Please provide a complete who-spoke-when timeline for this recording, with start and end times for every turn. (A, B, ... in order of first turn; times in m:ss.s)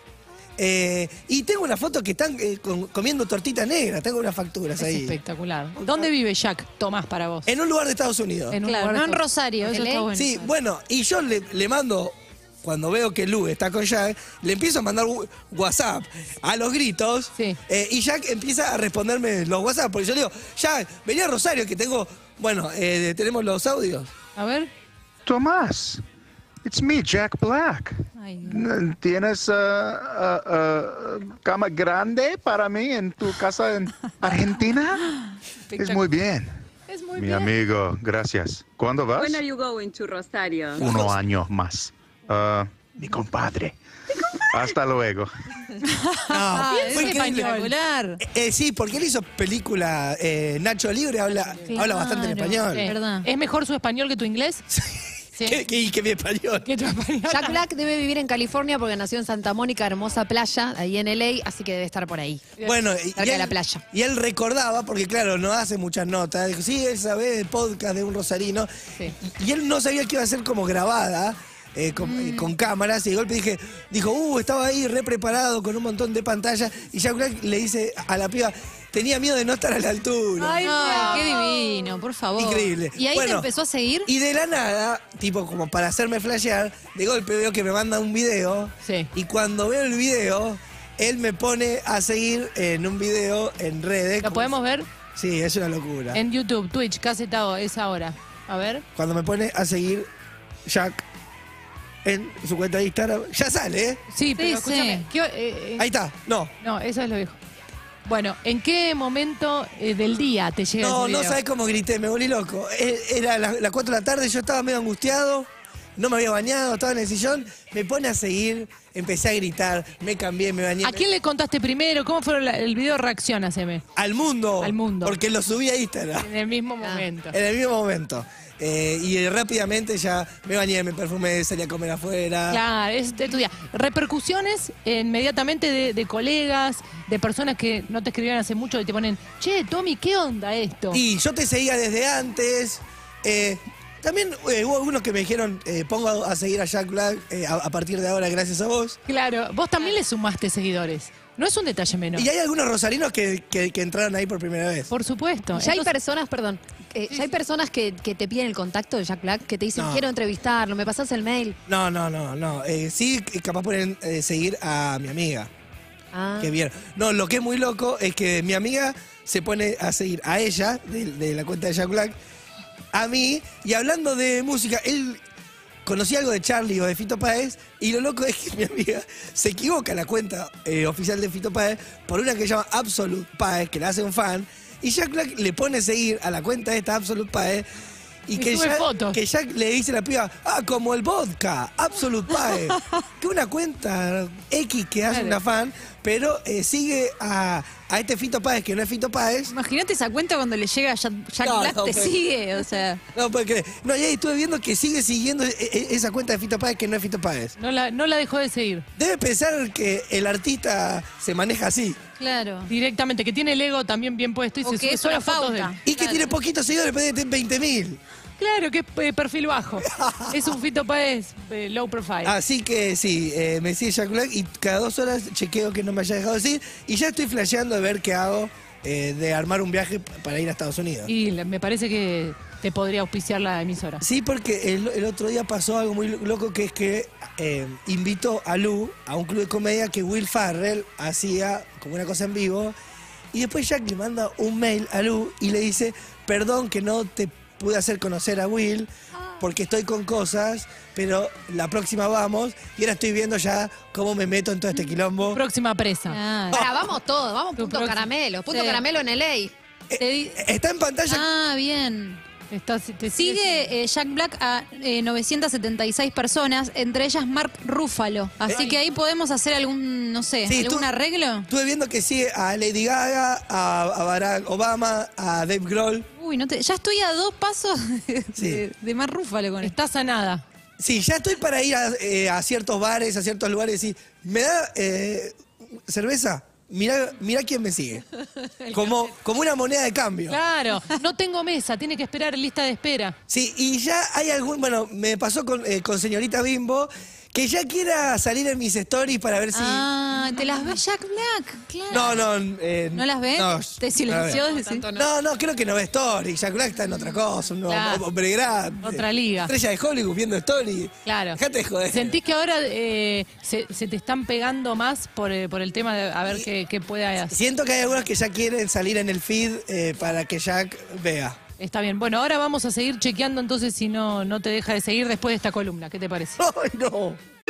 0:00.6-0:05.2 A
0:04.8-0:07.5 B
0:05.8-0:06.0 A
0:07.4-0:08.6 A
0:08.5-0:09.2 B
0:08.6-0:10.5 C
0:09.7-0:10.1 D
0:10.1-0:24.1 A
0:24.4-0:24.7 B
0:25.2-0:26.0 E
0:26.6-0:35.1 E
0:28.2-0:28.6 C
0:35.7-0:36.1 B
0:35.8-0:36.5 E
0:36.9-0:37.5 B
0:37.1-0:39.4 E
0:39.2-0:41.1 F
0:40.8-0:43.8 E
0:44.5-0:45.3 E
0:46.2-0:48.2 C
0:46.3-0:47.5 A
0:46.6-0:47.7 B
0:48.2-0:52.9 A
0:51.4-0:51.8 B
0:51.7-0:53.3 C
0:52.7-0:54.6 B
0:54.7-0:56.7 A
0:55.3-0:55.6 B
0:56.6-0:57.6 B
0:57.3-1:02.5 D
1:02.6-1:20.6 A
1:03.1-1:03.8 D
1:12.0-1:12.5 C
1:20.4-1:21.9 B
1:20.4-1:24.1 C
1:22.4-1:23.5 A
1:24.1-1:34.6 A
1:28.8-1:29.1 B
1:34.2-1:34.9 B
1:35.1-1:36.2 A
1:36.1-1:38.8 B
1:38.9-1:40.1 A
1:40.6-1:41.0 A
1:42.0-1:44.0 A
1:44.1-1:45.9 B
1:44.4-1:45.0 C
1:45.8-1:46.5 A
1:46.6-1:47.4 B
1:48.1-1:51.4 B
1:50.8-2:01.1 A
2:00.8-2:03.8 B
2:04.0-2:06.3 A
2:04.6-2:05.2 B
2:06.2-2:07.4 B
2:07.3-2:12.6 A
2:12.5-2:21.0 B
2:20.9-2:29.0 A
2:29.1-2:32.3 B
2:32.1-2:34.9 A
2:34.9-2:35.9 B
2:35.6-2:41.6 D
2:39.8-2:40.1 A
2:41.7-2:45.5 A
2:46.1-2:46.6 D
2:46.4-2:52.2 A
2:52.9-2:55.2 A
2:55.8-3:07.7 A
3:08.2-3:19.5 A
3:08.4-3:09.2 B
3:12.4-3:12.7 C
3:15.1-3:15.4 B
3:19.5-3:23.0 C
3:21.4-3:22.2 A
3:23.1-3:27.6 A
3:27.6-3:28.9 B
3:29.0-3:32.0 A
3:32.2-3:32.7 C
3:32.7-3:35.7 B
3:34.6-3:36.3 C
3:35.9-3:38.0 A
3:38.4-3:42.3 B
3:39.9-3:40.5 A
3:42.2-3:51.1 A
3:51.0-3:54.0 B
3:54.0-4:02.8 A
4:03.3-4:15.4 A
4:15.3-4:16.2 B
4:16.1-4:16.6 C
4:16.5-4:16.9 A
4:16.5-4:19.5 D
4:17.6-4:18.0 B
4:18.5-4:18.8 C
4:19.9-4:21.3 A
4:20.0-4:20.4 B
4:21.1-4:22.2 C
4:22.5-4:23.7 B
4:23.1-4:31.5 C
4:28.5-4:28.8 B
4:30.4-4:30.9 A
4:31.5-4:36.1 A
4:36.1-4:39.8 C
4:38.3-4:38.6 A
4:39.6-4:40.4 B
4:40.8-4:48.0 A
4:48.6-4:48.9 C
4:48.7-4:50.4 A
4:50.3-4:53.2 B
4:53.3-4:59.9 A
4:59.5-5:02.3 C
5:01.9-5:12.2 A
5:02.9-5:04.9 C
5:04.3-5:05.0 D
5:07.7-5:08.0 B
5:08.8-5:09.5 B
5:11.0-5:17.4 B
5:17.3-5:21.4 A
5:21.6-5:26.4 B
5:26.4-5:27.2 A